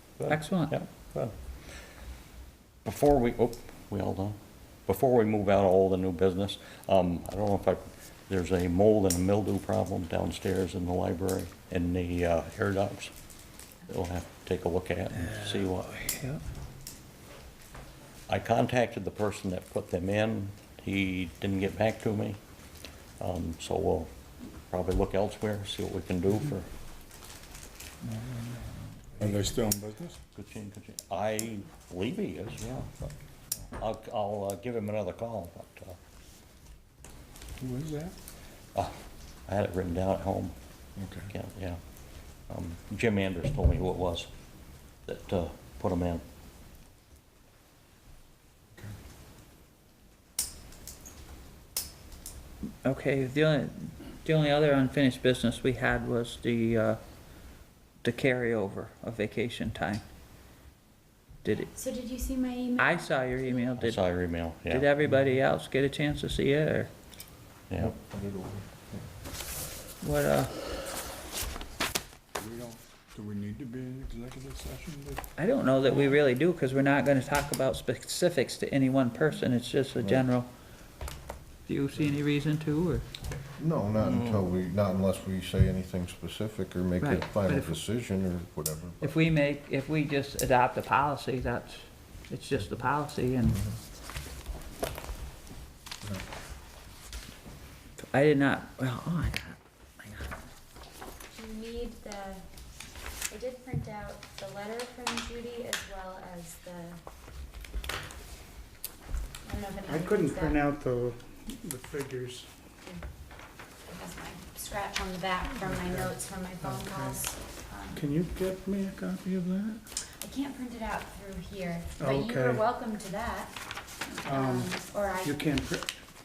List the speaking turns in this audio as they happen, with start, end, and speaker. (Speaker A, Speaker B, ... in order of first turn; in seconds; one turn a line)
Speaker A: 0.2-1.8
Speaker B: 0.3-0.8
Speaker A: 2.9-13.2
Speaker A: 13.7-15.9
Speaker B: 15.1-16.4
Speaker A: 18.3-22.4
Speaker A: 23.2-24.1
Speaker A: 24.7-26.7
Speaker B: 28.1-28.6
Speaker C: 29.2-30.2
Speaker A: 30.3-33.1
Speaker A: 33.8-36.0
Speaker C: 37.6-38.2
Speaker A: 39.5-44.3
Speaker C: 41.0-41.3
Speaker A: 45.0-46.2
Speaker B: 52.8-57.0
Speaker B: 58.0-60.0
Speaker B: 61.4-61.7
Speaker D: 61.7-63.7
Speaker B: 62.8-66.9
Speaker A: 63.8-64.9
Speaker A: 67.7-68.0
Speaker E: 67.8-69.0
Speaker B: 70.0-70.5
Speaker C: 72.3-75.3
Speaker B: 75.4-80.5
Speaker B: 81.7-83.1
Speaker E: 83.6-89.1
Speaker B: 87.0-87.8
Speaker B: 89.0-93.6
Speaker B: 98.1-100.5
Speaker D: 101.3-102.4
Speaker D: 103.3-107.0
Speaker D: 109.5-110.6
Speaker F: 109.9-112.5
Speaker D: 113.9-118.0
Speaker F: 115.6-117.2
Speaker F: 117.9-119.8
Speaker D: 120.2-123.6
Speaker F: 122.0-122.6
Speaker D: 124.2-125.5
Speaker F: 124.2-126.0